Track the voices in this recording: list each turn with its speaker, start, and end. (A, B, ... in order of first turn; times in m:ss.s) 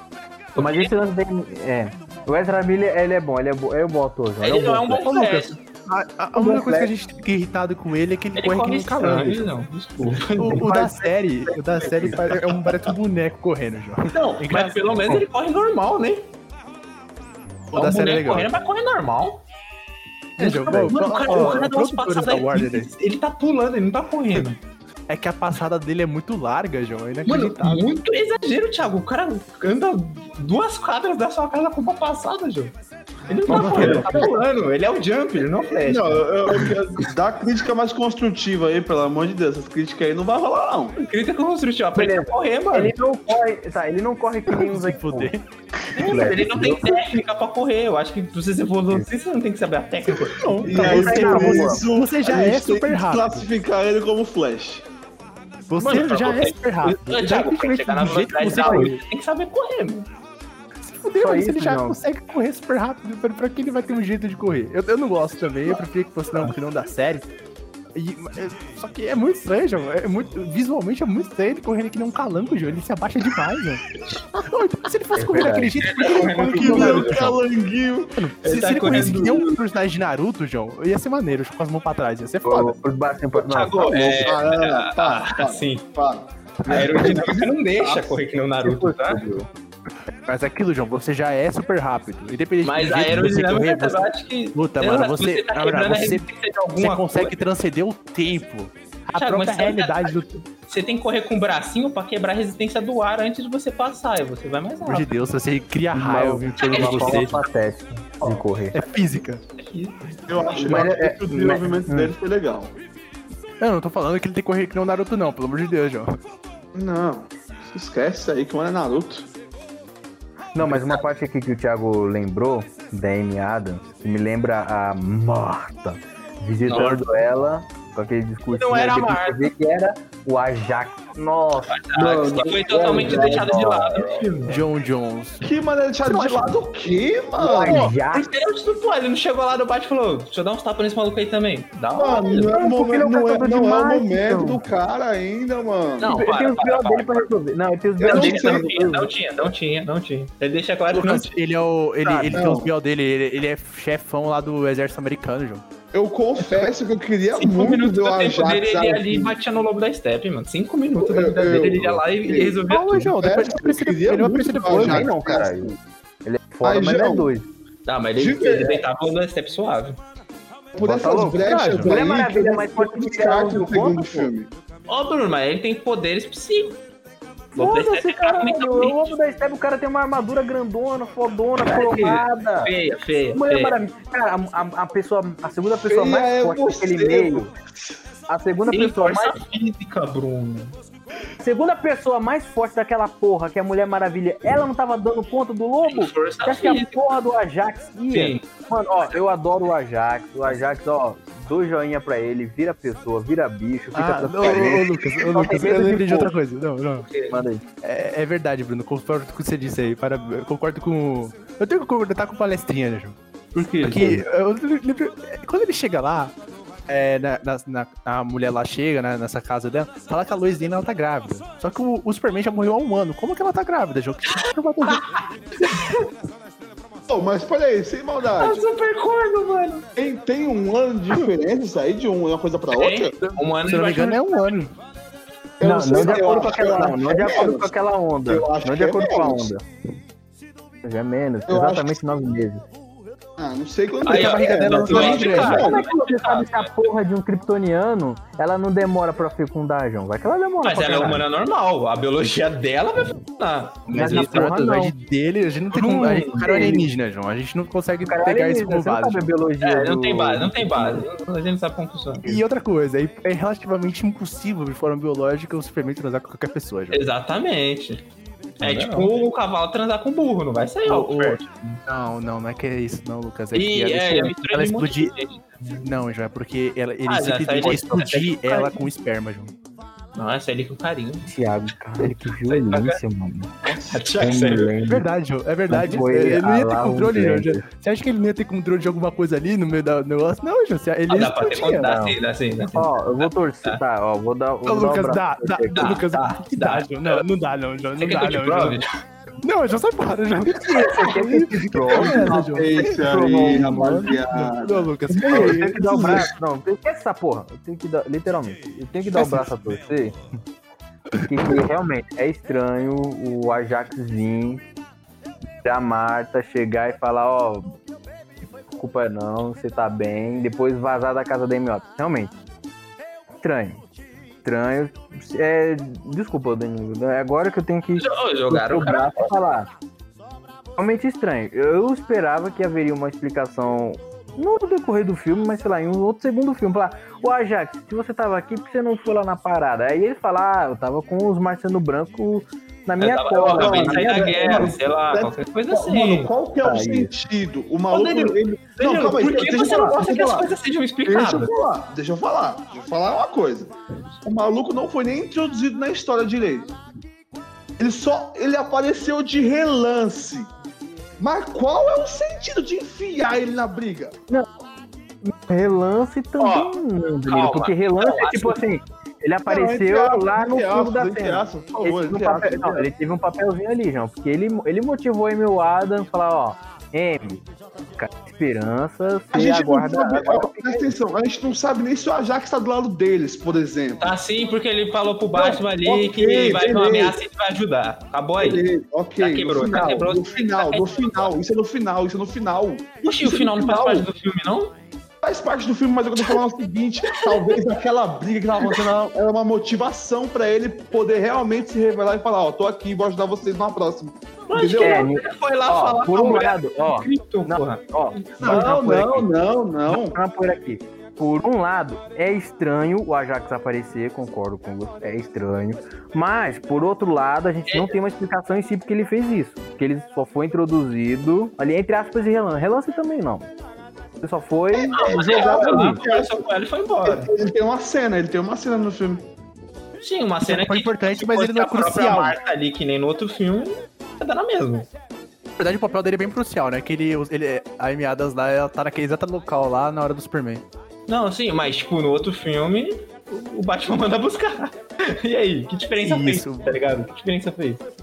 0:00.6-0:00.9 A
0:00.6-0:05.0 B
0:04.4-0:05.6 A
0:05.0-0:09.5 C
0:06.4-0:06.9 B
0:08.4-0:12.8 A
0:10.3-0:15.2 C
0:14.1-0:16.3 A
0:17.7-0:18.5 C
0:17.7-0:19.4 A
0:20.4-0:22.9 C
0:20.4-0:24.6 A
0:25.1-0:27.9 C
0:27.3-0:32.8 A
0:33.3-0:36.8 A
0:33.5-0:34.4 C
0:33.5-0:34.2 D
0:33.6-0:34.3 B
0:35.7-0:41.0 D
0:41.0-0:43.0 A
0:42.0-0:45.3 B
0:44.5-0:45.4 C
0:45.9-0:50.6 A
0:46.0-0:47.0 B
0:50.1-0:53.5 C
0:50.6-0:54.8 D
0:50.7-0:51.8 B
0:55.7-0:59.0 C
0:55.8-1:00.1 A
1:00.8-1:07.3 C
1:01.2-1:02.0 B
1:08.0-1:17.4 C
1:15.2-1:15.8 B
1:15.8-1:17.3 A
1:16.4-1:18.2 D
1:18.2-1:22.8 C
1:18.4-1:19.6 A
1:22.4-1:24.4 B
1:23.4-1:25.8 A
1:24.0-1:28.2 D
1:26.7-1:29.3 A
1:28.6-1:29.5 B
1:30.3-1:36.3 C
1:32.6-1:37.3 A
1:36.8-1:40.4 C
1:39.2-1:45.1 A
1:44.8-1:47.4 C
1:45.9-1:48.8 B
1:46.6-1:47.4 A
1:48.7-1:49.4 C
1:49.6-1:50.9 A
1:50.3-1:52.8 D
1:50.6-1:52.1 B
1:53.6-1:56.2 C
1:56.8-1:59.3 D
2:00.6-2:11.8 B
2:00.7-2:01.0 A
2:06.6-2:07.2 A
2:08.5-2:09.5 A
2:11.7-2:14.6 A
2:12.0-2:13.9 D
2:12.7-2:14.1 B
2:14.5-2:15.4 C
2:15.4-2:17.9 D
2:16.0-2:16.6 C
2:17.4-2:18.4 B
2:17.6-2:22.6 A
2:21.9-2:26.2 D
2:22.5-2:24.6 B
2:26.0-2:27.3 A
2:26.1-2:29.1 B
2:28.0-2:31.3 A
2:28.0-2:28.9 D
2:30.9-2:35.6 C
2:32.0-2:32.4 B
2:32.3-2:32.7 D
2:35.9-2:39.4 D
2:37.3-2:43.1 A
2:41.0-2:45.8 D
2:42.7-2:45.1 C
2:44.8-2:47.5 B
2:46.6-2:47.3 D
2:47.9-2:50.0 A
2:48.2-2:48.8 D
2:50.7-2:54.5 D
2:50.8-2:54.3 B
2:51.5-2:51.9 C
2:54.9-2:56.8 A
2:57.5-3:02.7 B
2:57.6-2:59.2 A
3:01.6-3:03.8 A
3:03.3-3:07.5 B
3:05.7-3:07.5 D
3:08.3-3:09.4 B
3:08.7-3:10.8 A
3:11.4-3:26.3 B
3:15.8-3:17.1 A
3:18.1-3:18.4 A
3:23.9-3:27.1 C
3:24.4-3:26.0 D
3:27.0-3:27.4 A
3:27.3-3:27.6 B
3:27.8-3:33.2 C
3:33.6-3:34.2 A
3:33.8-3:36.3 C
3:36.9-3:45.1 C
3:44.9-3:46.0 A
3:47.1-3:48.7 D
3:48.3-3:49.9 A
3:50.0-3:53.2 D
3:52.7-3:54.5 A
3:53.2-3:54.7 C
3:55.6-3:57.7 D
3:55.6-3:59.6 B
3:58.3-3:59.5 D
4:00.8-4:02.6 B
4:01.5-4:02.0 D
4:03.4-4:05.8 D
4:04.0-4:06.8 A
4:04.1-4:05.7 C
4:05.4-4:11.2 B
4:10.6-4:14.5 A
4:13.9-4:19.3 C
4:13.9-4:14.9 B
4:15.7-4:16.8 A
4:16.4-4:16.9 B
4:18.0-4:21.1 B
4:19.6-4:22.3 A
4:22.2-4:27.0 C
4:26.9-4:28.0 A
4:28.6-4:29.1 C
4:28.6-4:31.8 A
4:30.8-4:35.2 C
4:33.5-4:35.9 A
4:35.8-4:39.5 C
4:37.0-4:38.8 A
4:40.2-4:41.3 A
4:41.3-4:43.6 B
4:42.2-4:43.0 A
4:43.7-4:44.6 D
4:43.7-4:44.9 A
4:44.2-4:45.0 B
4:44.8-4:52.2 C
4:45.7-4:47.6 B
4:51.1-4:53.8 A
4:52.7-4:55.9 B
4:54.7-4:58.8 C
4:55.7-4:57.2 A
4:58.0-4:59.0 A
4:59.4-5:06.2 C
5:00.7-5:04.1 B
5:01.8-5:06.2 D
5:05.1-5:10.2 B
5:09.1-5:09.6 C
5:11.2-5:14.6 B
5:15.6-5:17.7 B
5:18.7-5:22.3 B
5:23.4-5:23.8 B
5:24.4-5:29.7 B
5:28.0-5:29.3 A
5:30.8-5:44.8 B
5:43.0-5:46.3 A
5:43.4-5:50.6 D
5:46.6-5:47.1 B
5:47.9-5:51.5 A
5:51.1-5:53.7 D
5:54.2-5:56.7 D
5:57.8-6:00.5 D
6:01.2-6:04.2 D
6:05.2-6:17.4 B
6:06.4-6:06.7 A
6:07.3-6:08.6 A
6:09.5-6:12.9 D
6:18.0-6:20.9 B
6:19.3-6:24.1 D
6:24.0-6:28.6 A
6:25.3-6:27.2 D
6:28.4-6:34.1 D
6:29.2-6:31.3 A
6:33.0-6:34.8 A
6:35.2-6:45.1 D
6:37.1-6:37.6 A
6:44.5-6:48.3 A
6:44.8-6:49.3 B
6:48.4-6:50.2 D
6:49.9-7:03.5 B
6:57.7-6:58.0 A
7:04.2-7:06.0 B
7:04.7-7:06.5 D
7:04.9-7:07.3 A
7:07.0-7:09.3 D
7:10.0-7:14.9 A
7:10.4-7:12.4 C
7:15.6-7:20.6 C
7:21.1-7:27.8 A
7:26.0-7:26.8 C